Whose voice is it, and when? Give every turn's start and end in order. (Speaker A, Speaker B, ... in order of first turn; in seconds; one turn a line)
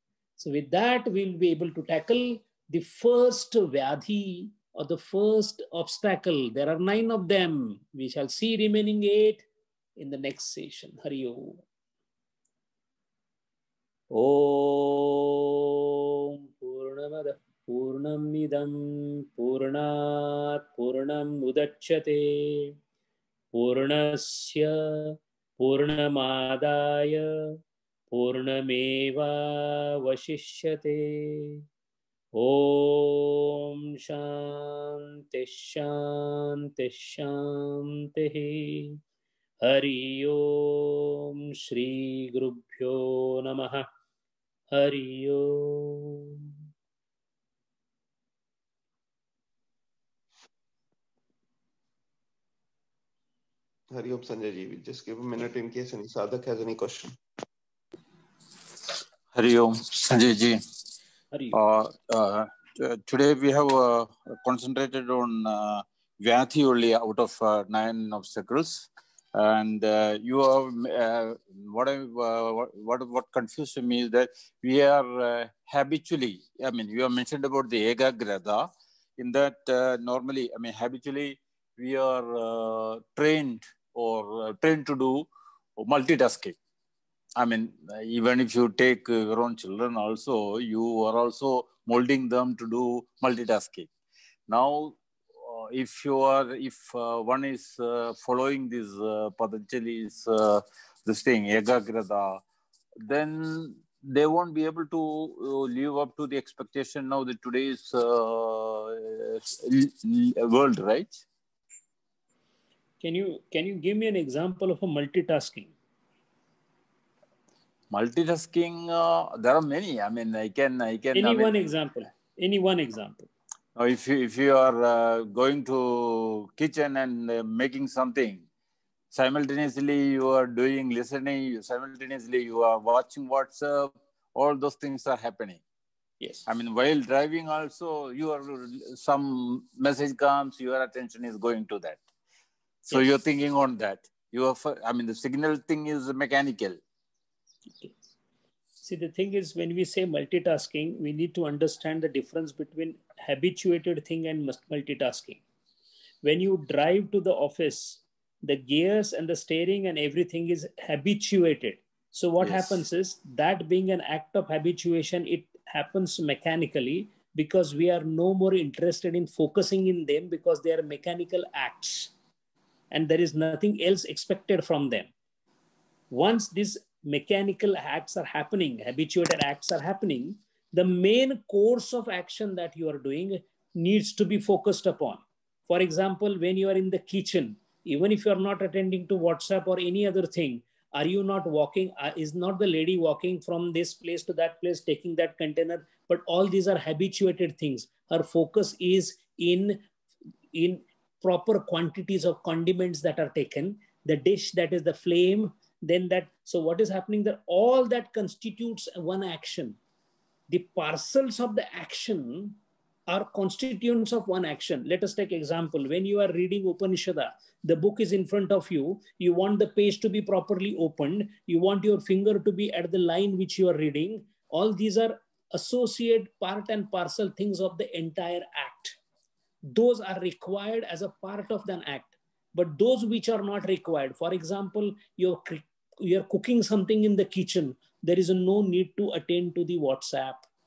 Speaker A: 0.4-9.4
Speaker A: 10.0-11.6
Speaker A: 14.1-15.5
Speaker A: 16.6-22.7
Speaker A: 23.5-27.3
Speaker A: 28.1-31.6
Speaker A: 32.4-39.0
Speaker A: 39.6-43.8
Speaker A: 44.7-46.4
Speaker B: 53.9-57.2
Speaker C: 59.3-60.6
Speaker A: 61.3-61.6
Speaker C: 61.5-85.3
Speaker C: 85.8-86.5
Speaker C: 87.4-93.9
Speaker C: 94.5-102.4
Speaker C: 103.0-111.2
Speaker A: 113.0-115.7
Speaker C: 117.9-121.5
Speaker A: 121.1-123.3
Speaker C: 123.8-128.4
Speaker C: 129.1-135.6
Speaker C: 136.4-142.0
Speaker C: 142.9-146.8
Speaker A: 148.8-155.4
Speaker A: 156.2-172.1
Speaker C: 162.4-162.8
Speaker A: 172.9-175.1
Speaker A: 176.1-199.8
Speaker A: 200.5-209.8
Speaker A: 210.5-212.6
Speaker A: 213.1-228.9
Speaker A: 229.7-240.4